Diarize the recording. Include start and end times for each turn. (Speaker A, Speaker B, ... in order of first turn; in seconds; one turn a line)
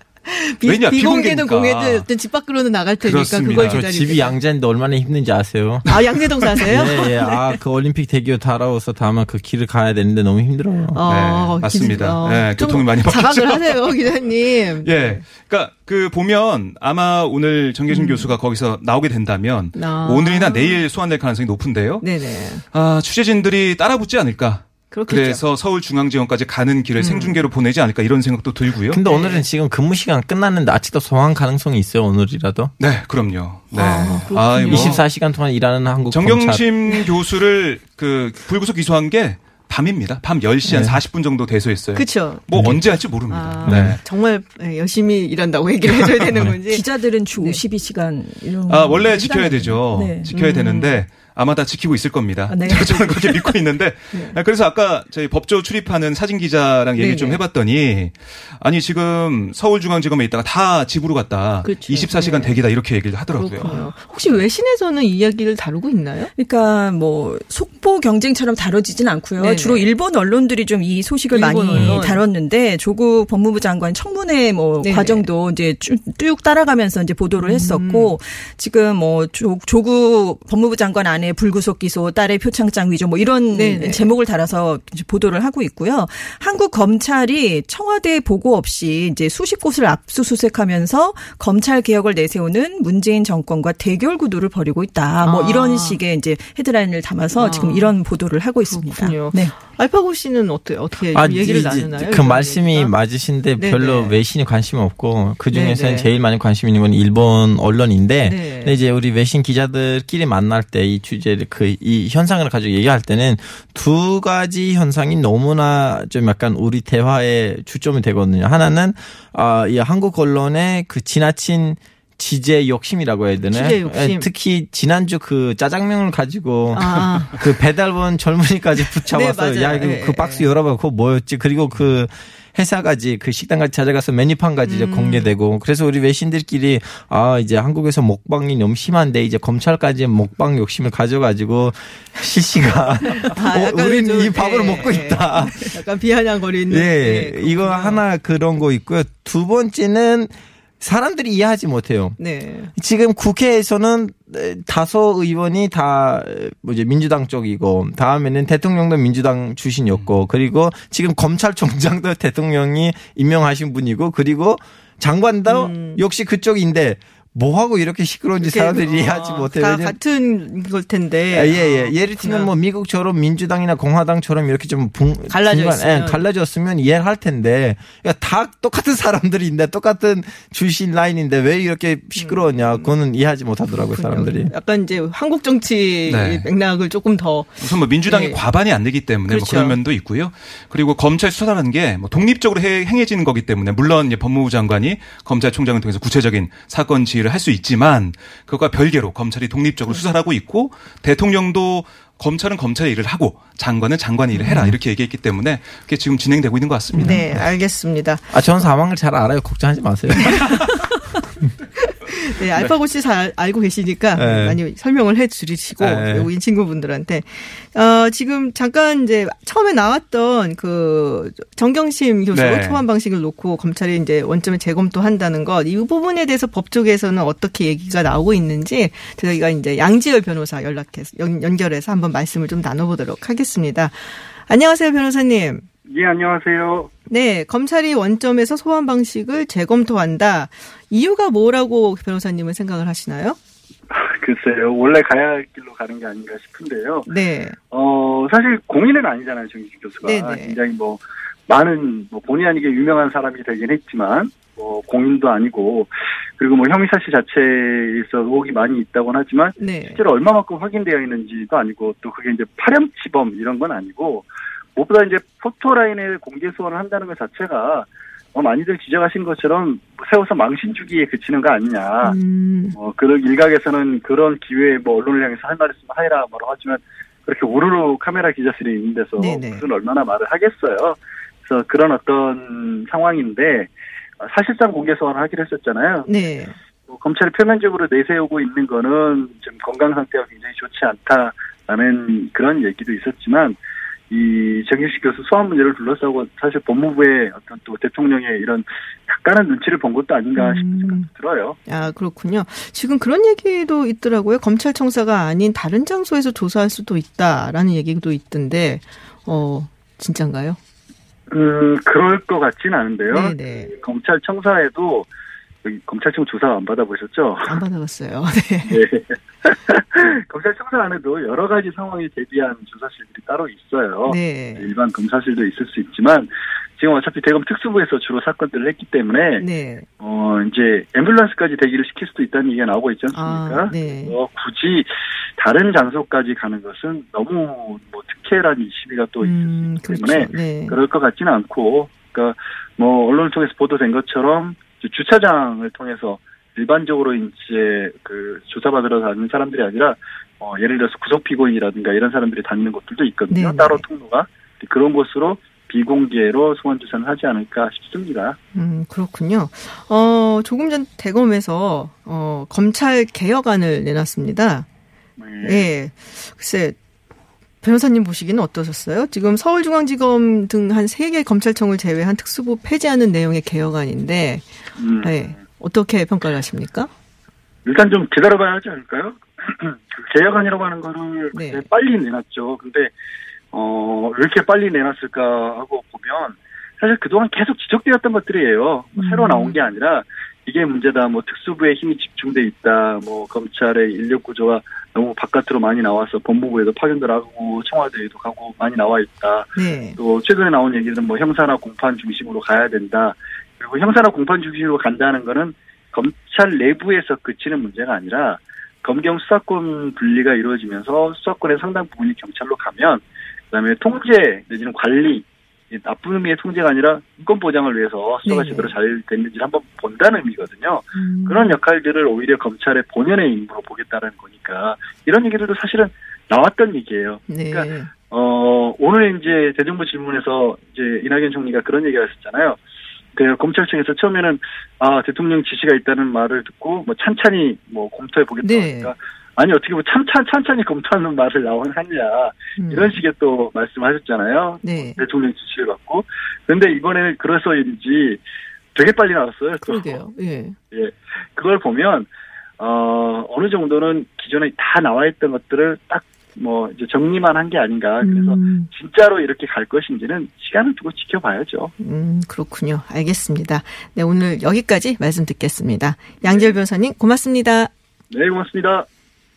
Speaker A: 0.2-4.4
Speaker B: 0.6-2.1
Speaker B: 3.0-3.9
Speaker C: 3.5-6.0
Speaker A: 5.9-7.6
Speaker C: 6.6-11.0
Speaker A: 10.9-15.2
Speaker B: 11.1-14.0
Speaker B: 14.8-29.0
Speaker A: 17.9-18.3
Speaker A: 19.8-20.8
Speaker A: 22.0-22.6
Speaker A: 24.9-25.4
Speaker A: 27.0-27.4
Speaker C: 28.9-32.7
Speaker A: 29.0-29.4
Speaker B: 32.8-35.0
Speaker A: 33.7-35.0
Speaker C: 34.6-36.7
Speaker B: 36.1-44.0
Speaker C: 40.7-41.0
Speaker A: 41.9-46.8
Speaker C: 42.5-42.8
Speaker C: 43.6-44.0
Speaker B: 45.9-46.5
Speaker D: 46.7-50.3
Speaker B: 48.7-63.9
Speaker A: 50.3-51.0
Speaker D: 52.5-53.5
Speaker A: 57.0-57.4
Speaker A: 61.6-62.6
Speaker A: 63.3-66.3
Speaker D: 66.4-99.5
Speaker A: 69.4-69.9
Speaker A: 71.3-72.2
Speaker A: 74.8-75.2
Speaker A: 77.4-78.2
Speaker A: 83.5-84.1
Speaker A: 95.2-96.0
Speaker A: 97.3-97.9
Speaker A: 98.7-102.9
Speaker C: 101.1-145.8
Speaker A: 103.6-104.2
Speaker A: 105.5-106.1
Speaker A: 108.2-108.8
Speaker A: 123.5-124.3
Speaker A: 126.7-127.4
Speaker A: 129.1-130.5
Speaker A: 134.7-135.3
Speaker A: 143.2-148.0
Speaker C: 146.7-152.2
Speaker A: 152.2-152.7
Speaker C: 152.8-170.0
Speaker A: 165.5-166.0
Speaker A: 168.4-172.5
Speaker C: 171.3-184.5
Speaker A: 175.3-176.2
Speaker A: 182.2-182.9
Speaker A: 183.8-188.4
Speaker B: 186.1-186.5
Speaker B: 187.6-207.4
Speaker A: 189.3-189.8
Speaker C: 204.4-204.8
Speaker C: 206.9-207.4
Speaker A: 207.0-208.4
Speaker C: 208.3-210.6
Speaker A: 210.2-211.0
Speaker A: 211.9-235.6
Speaker C: 214.1-214.6
Speaker B: 215.8-216.3
Speaker B: 222.3-222.8
Speaker E: 235.9-236.9
Speaker A: 237.1-243.4
Speaker E: 243.9-247.1
Speaker A: 247.1-247.6
Speaker E: 247.7-272.2
Speaker A: 250.0-250.6
Speaker A: 259.6-260.0
Speaker A: 272.0-272.8
Speaker E: 272.8-286.1
Speaker A: 279.2-279.6
Speaker A: 286.0-286.6
Speaker E: 286.9-293.6
Speaker E: 294.1-301.6
Speaker A: 300.4-301.1
Speaker A: 301.7-310.6
Speaker E: 311.3-315.1
Speaker A: 313.1-313.7
Speaker E: 315.6-317.6
Speaker A: 317.5-318.8
Speaker E: 318.6-329.5
Speaker A: 324.1-324.7
Speaker A: 329.4-329.9
Speaker E: 330.0-358.4
Speaker A: 333.1-334.2
Speaker A: 339.2-340.8
Speaker A: 353.3-353.8
Speaker A: 358.5-364.6
Speaker E: 365.2-365.7
Speaker A: 365.4-366.8
Speaker A: 367.6-374.5
Speaker E: 374.8-375.4
Speaker A: 375.0-376.9
Speaker E: 377.6-382.9
Speaker A: 381.3-381.6
Speaker E: 383.5-432.6
Speaker A: 389.0-389.6
Speaker A: 399.6-400.0
Speaker A: 418.2-418.8
Speaker A: 420.9-421.6
Speaker A: 427.3-427.9
Speaker E: 433.1-448.2
Speaker A: 438.4-438.9
Speaker A: 442.6-443.0
Speaker A: 444.6-445.0
Speaker E: 448.7-450.0
Speaker A: 449.6-450.6
Speaker E: 450.7-452.1
Speaker E: 452.6-461.7
Speaker A: 458.0-458.7
Speaker A: 461.8-467.7
Speaker E: 466.2-466.5
Speaker E: 468.1-468.9